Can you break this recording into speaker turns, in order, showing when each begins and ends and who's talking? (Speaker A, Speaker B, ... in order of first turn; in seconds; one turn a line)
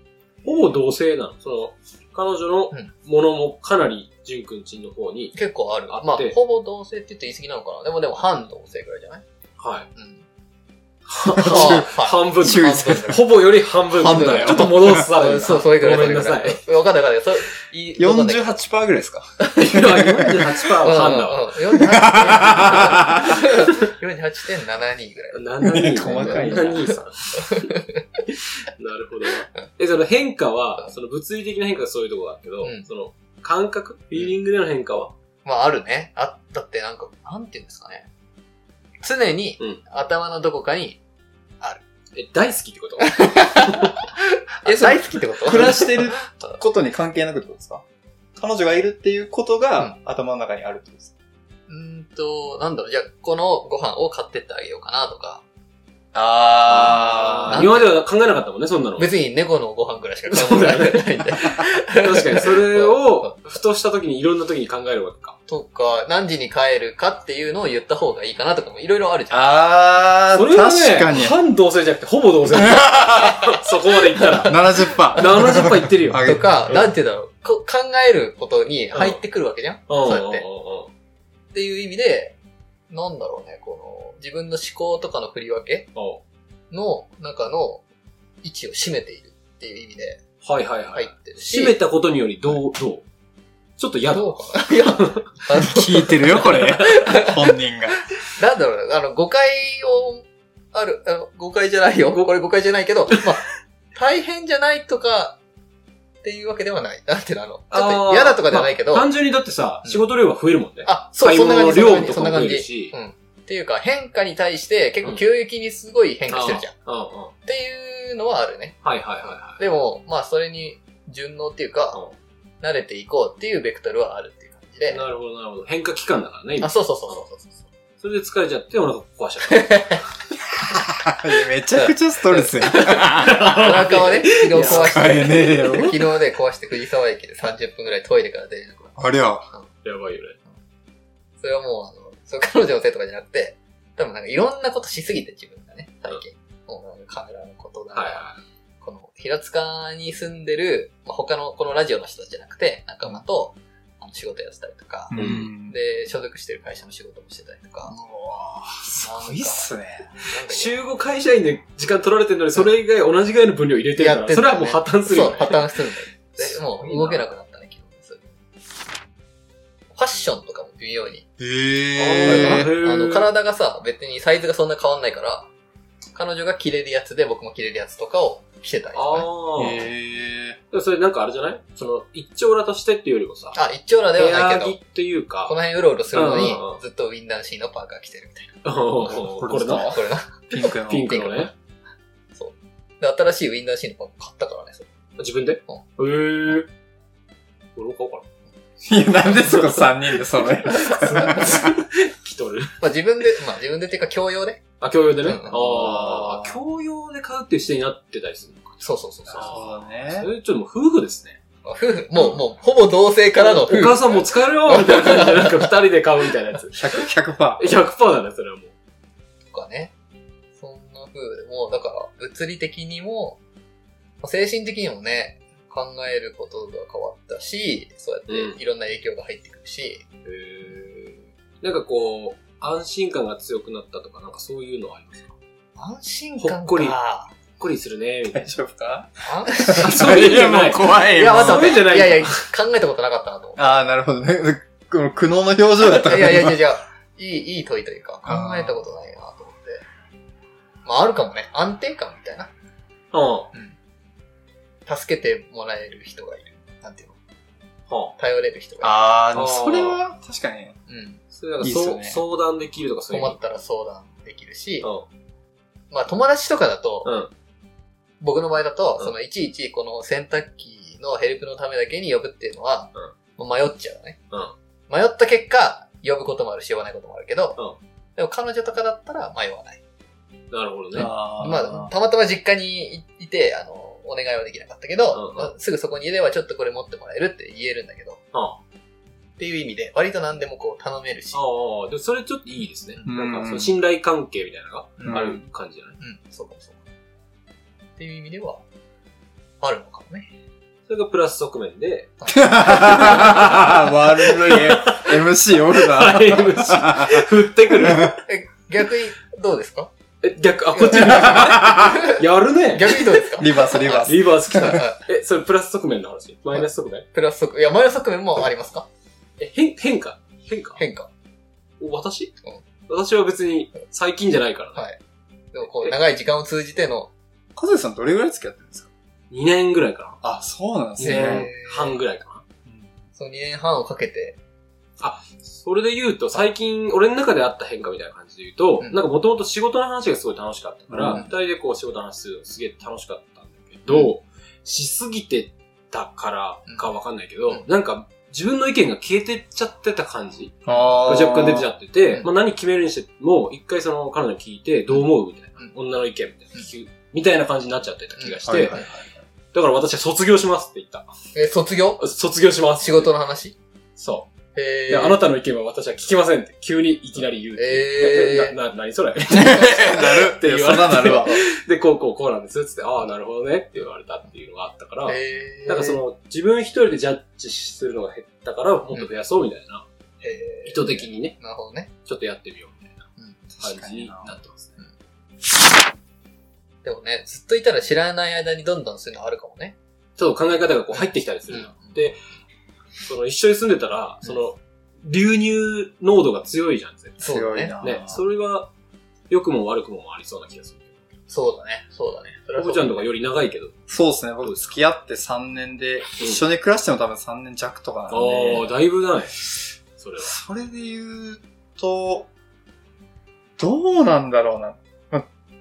Speaker A: 0.4-5.4
Speaker B: 5.3-9.2
Speaker A: 5.9-6.4
Speaker A: 9.6-9.9
Speaker B: 9.9-10.2
Speaker A: 11.1-16.6
Speaker C: 11.3-13.2
Speaker B: 11.4-13.3
Speaker C: 13.9-15.6
Speaker B: 14.0-18.6
Speaker C: 18.0-20.6
Speaker B: 19.4-19.7
Speaker A: 19.6-21.5
Speaker B: 20.8-25.4
Speaker C: 21.7-23.4
Speaker A: 25.3-27.7
Speaker C: 25.6-26.9
Speaker B: 26.1-28.2
Speaker A: 28.8-35.1
Speaker B: 35.4-38.1
Speaker B: 39.0-41.0
Speaker A: 42.1-43.9
Speaker B: 43.0-46.6
Speaker C: 44.6-47.8
Speaker C: 48.4-51.1
Speaker B: 51.7-55.4
Speaker C: 56.1-57.7
Speaker A: 56.7-59.1
Speaker B: 57.5-57.9
Speaker B: 59.0-63.4
Speaker A: 60.3-65.3
Speaker B: 65.5-69.5
Speaker C: 69.3-71.4
Speaker A: 70.3-74.6
Speaker C: 72.5-73.4
Speaker B: 74.1-74.5
Speaker C: 74.4-76.7
Speaker A: 75.1-76.9
Speaker B: 76.2-80.4
Speaker A: 78.9-79.2
Speaker A: 79.9-80.9
Speaker B: 81.5-82.3
Speaker B: 82.9-85.9
Speaker A: 85.9-86.2
Speaker B: 86.7-87.8
Speaker B: 88.4-90.2
Speaker A: 90.4-93.0
Speaker B: 90.9-91.8
Speaker A: 93.8-95.2
Speaker B: 94.1-97.5
Speaker C: 95.5-98.0
Speaker B: 98.3-103.4
Speaker B: 103.9-105.4
Speaker B: 106.2-109.1
Speaker A: 107.7-112.9
Speaker B: 110.8-116.7
Speaker A: 116.3-117.3
Speaker B: 117.5-122.0
Speaker A: 118.8-119.6
Speaker B: 122.6-125.0
Speaker A: 124.9-126.7
Speaker B: 126.6-127.6
Speaker A: 128.0-129.9
Speaker B: 129.5-130.0
Speaker C: 130.5-134.0
Speaker B: 131.7-139.0
Speaker A: 132.9-135.3
Speaker C: 134.5-136.0
Speaker C: 139.0-139.5
Speaker A: 139.8-140.4
Speaker B: 141.4-148.3
Speaker A: 147.9-148.4
Speaker B: 148.8-157.9
Speaker C: 155.1-155.7
Speaker A: 155.1-155.5
Speaker C: 157.8-160.1
Speaker B: 159.0-160.8
Speaker A: 160.5-165.7
Speaker B: 164.0-168.2
Speaker A: 166.4-167.3
Speaker B: 169.9-171.2
Speaker C: 171.4-172.7
Speaker A: 172.0-173.3
Speaker B: 172.2-175.5
Speaker B: 176.1-179.3
Speaker A: 178.9-179.8
Speaker C: 179.6-180.6
Speaker A: 180.7-183.6
Speaker B: 183.5-184.8
Speaker A: 184.2-185.6
Speaker B: 185.4-188.6
Speaker A: 186.1-186.8
Speaker A: 188.6-189.9
Speaker C: 189.0-191.2
Speaker B: 189.8-191.5
Speaker A: 190.8-191.5
Speaker B: 192.3-194.8
Speaker A: 195.2-196.7
Speaker A: 197.8-198.2
Speaker C: 198.8-201.7
Speaker A: 199.4-199.8
Speaker A: 200.7-202.8
Speaker B: 200.9-201.4
Speaker B: 202.8-204.7
Speaker A: 204.8-211.4
Speaker B: 205.2-205.6
Speaker C: 205.5-206.6
Speaker B: 208.8-209.6
Speaker C: 209.3-210.3
Speaker B: 211.6-215.7
Speaker A: 213.4-216.8
Speaker C: 216.7-217.8
Speaker A: 217.6-218.7
Speaker B: 219.5-219.9
Speaker B: 220.6-223.4
Speaker B: 224.2-230.0
Speaker A: 228.3-228.6
Speaker A: 230.2-235.3
Speaker B: 235.8-237.3
Speaker A: 236.4-237.0
Speaker A: 237.6-238.5
Speaker C: 238.3-241.9
Speaker B: 239.2-240.3
Speaker A: 239.7-242.4
Speaker B: 241.1-243.7
Speaker C: 243.6-246.6
Speaker B: 245.8-249.8
Speaker C: 248.2-248.8
Speaker B: 250.8-252.5
Speaker A: 253.1-253.5
Speaker B: 254.9-257.1
Speaker A: 257.9-258.1
Speaker B: 258.2-259.0
Speaker C: 258.8-260.8
Speaker A: 259.3-260.0
Speaker B: 260.9-261.2
Speaker A: 261.3-263.4
Speaker C: 261.6-262.2
Speaker B: 263.1-264.9
Speaker B: 265.9-267.1
Speaker A: 267.0-267.3
Speaker B: 268.2-274.2
Speaker B: 274.9-277.6
Speaker B: 278.2-279.8
Speaker A: 280.5-281.1
Speaker C: 280.9-281.9
Speaker B: 281.0-288.2
Speaker A: 285.1-285.5
Speaker A: 288.3-288.6
Speaker B: 289.4-291.4
Speaker A: 291.3-296.0
Speaker C: 293.1-293.8
Speaker B: 295.0-295.2
Speaker C: 295.0-295.4
Speaker B: 296.0-296.8
Speaker B: 298.0-298.6
Speaker B: 299.6-300.3
Speaker A: 300.9-302.1
Speaker C: 302.3-308.1
Speaker A: 302.7-308.2
Speaker B: 308.2-309.9
Speaker A: 310.2-317.0
Speaker B: 310.7-312.2
Speaker C: 311.0-311.9
Speaker B: 312.7-315.0
Speaker C: 313.4-314.8
Speaker B: 316.5-318.9
Speaker A: 319.4-320.8
Speaker B: 320.8-321.1
Speaker A: 321.8-322.3
Speaker A: 322.9-324.8
Speaker B: 325.5-327.1
Speaker A: 325.6-325.9
Speaker C: 327.6-328.9
Speaker A: 329.3-330.2
Speaker C: 330.2-331.5
Speaker A: 331.0-332.4
Speaker B: 331.0-332.0
Speaker C: 332.6-332.9
Speaker B: 333.1-334.4
Speaker A: 335.0-358.8
Speaker C: 340.9-341.3
Speaker C: 350.6-351.7
Speaker B: 358.2-358.9
Speaker C: 358.4-359.2
Speaker A: 359.5-361.1
Speaker B: 361.3-362.0
Speaker A: 362.0-363.1
Speaker B: 362.8-363.6
Speaker A: 364.0-364.3
Speaker B: 364.5-365.2
Speaker A: 364.9-379.9
Speaker B: 367.6-368.5
Speaker C: 369.3-371.4
Speaker B: 375.1-376.0
Speaker B: 380.2-381.9
Speaker A: 380.6-381.4
Speaker A: 382.1-383.0
Speaker C: 383.6-384.4
Speaker A: 383.6-384.8
Speaker B: 386.8-389.8
Speaker A: 390.2-392.2
Speaker B: 390.9-392.0
Speaker A: 393.0-397.2
Speaker C: 397.2-398.2
Speaker B: 397.2-397.8
Speaker A: 397.8-398.7
Speaker A: 399.3-401.0
Speaker B: 401.3-403.0
Speaker A: 402.6-403.7
Speaker C: 403.9-408.7
Speaker A: 404.4-404.7
Speaker A: 408.1-409.4
Speaker A: 410.0-410.3
Speaker C: 410.2-412.3
Speaker C: 413.6-415.3